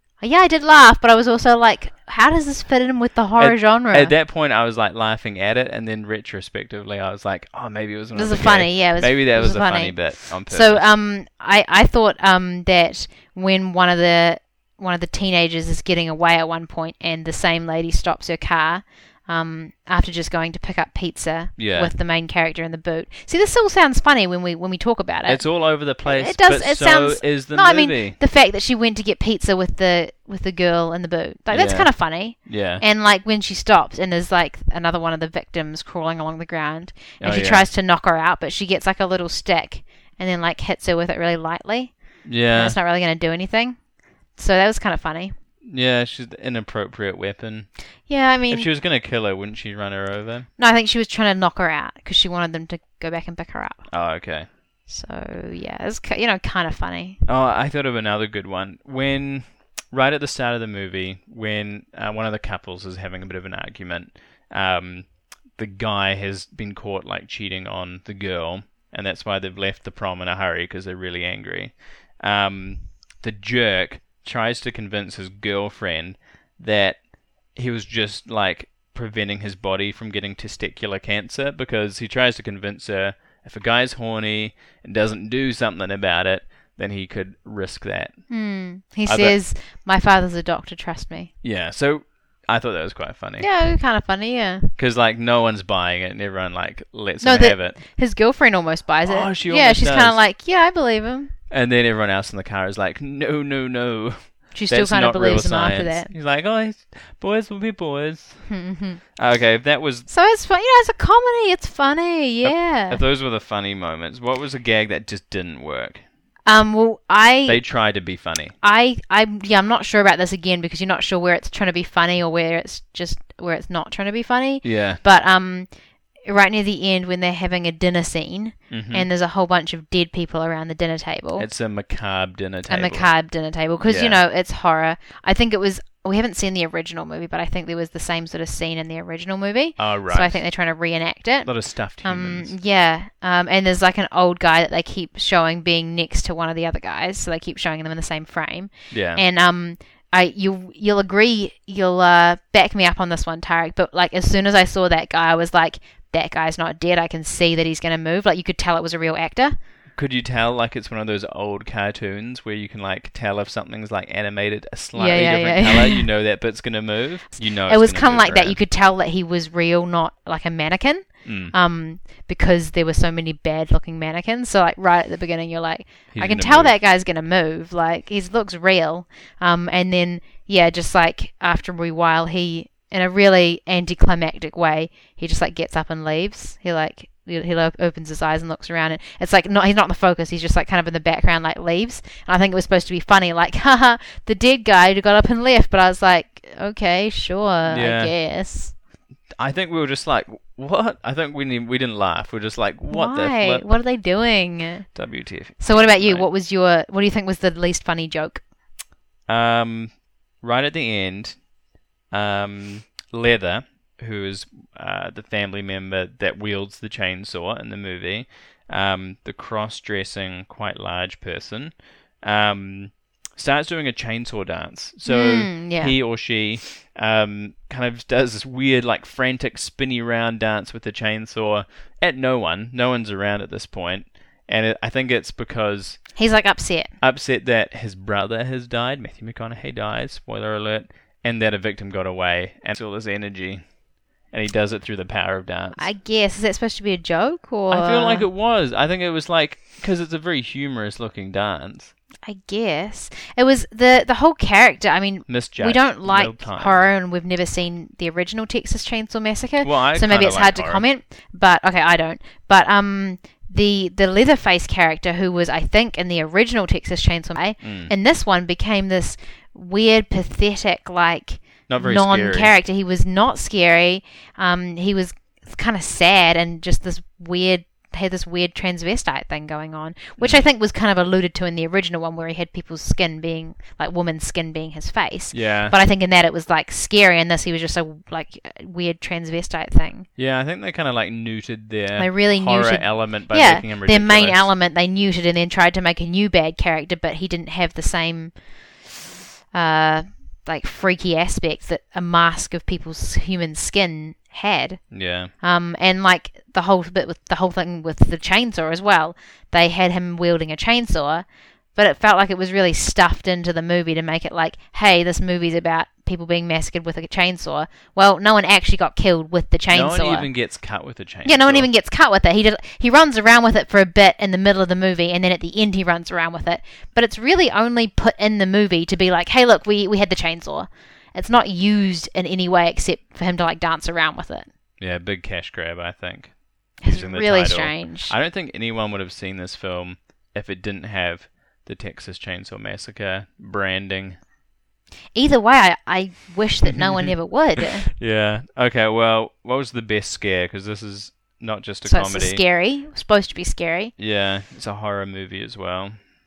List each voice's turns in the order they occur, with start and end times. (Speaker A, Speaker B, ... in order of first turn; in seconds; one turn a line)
Speaker A: 0.2-4.1
Speaker B: 3.4-10.8
Speaker A: 8.1-25.4
Speaker B: 21.6-21.9
Speaker B: 25.2-28.2
Speaker A: 26.0-41.9
Speaker B: 31.5-31.9
Speaker B: 32.5-32.8
Speaker B: 37.2-37.7
Speaker B: 42.2-42.8
Speaker A: 42.5-43.8
Speaker A: 44.4-45.3
Speaker B: 45.7-47.7
Speaker A: 48.1-48.7
Speaker B: 48.5-50.5
Speaker A: 50.6-53.9
Speaker B: 53.9-54.5
Speaker A: 54.9-57.2
Speaker B: 57.2-77.0
Speaker B: 77.5-88.2
Speaker A: 88.3-91.3
Speaker B: 89.0-89.4
Speaker B: 91.4-93.5
Speaker A: 93.4-94.7
Speaker B: 94.8-97.8
Speaker A: 97.2-101.3
Speaker B: 99.0-100.2
Speaker B: 101.5-108.5
Speaker A: 104.5-106.1
Speaker A: 108.5-109.0
Speaker B: 109.2-110.1
Speaker A: 110.1-113.0
Speaker B: 112.4-116.0
Speaker A: 116.5-117.6
Speaker B: 117.5-118.5
Speaker A: 118.6-125.7
Speaker B: 124.6-125.0
Speaker A: 126.2-131.4
Speaker B: 128.7-129.1
Speaker B: 131.4-133.1
Speaker A: 132.7-141.5
Speaker B: 133.8-134.2
Speaker B: 139.8-140.4
Speaker B: 141.4-142.5
Speaker A: 142.0-159.6
Speaker B: 148.9-149.2
Speaker B: 159.9-168.6
Speaker A: 164.9-166.1
Speaker A: 167.7-198.7
Speaker B: 171.2-171.5
Speaker B: 176.1-176.7
Speaker B: 197.6-198.1
Speaker B: 199.4-203.7
Speaker A: 202.9-204.9
Speaker B: 204.9-206.3
Speaker A: 205.6-208.4
Speaker B: 209.3-211.4
Speaker B: 212.1-236.0
Speaker A: 225.1-225.9
Speaker A: 236.2-236.9
Speaker B: 237.0-243.6
Speaker B: 244.3-245.8
Speaker A: 245.8-248.2
Speaker B: 247.7-251.9
Speaker A: 252.2-290.1
Speaker B: 255.3-256.8
Speaker B: 259.6-260.8
Speaker B: 267.6-267.9
Speaker B: 271.7-272.5
Speaker B: 280.2-280.4
Speaker B: 285.3-285.8
Speaker B: 290.2-294.4
Speaker A: 291.9-298.3
Speaker A: 299.5-304.8
Speaker B: 304.9-305.3
Speaker A: 305.4-311.2
Speaker A: 311.8-320.3
Speaker B: 319.7-321.7
Speaker A: 321.2-334.5
Speaker B: 334.8-344.2
Speaker A: 336.8-338.1
Speaker A: 345.1-347.9
Speaker B: 346.6-347.1
Speaker B: 348.0-352.4
Speaker A: 351.8-353.9
Speaker B: 354.0-356.0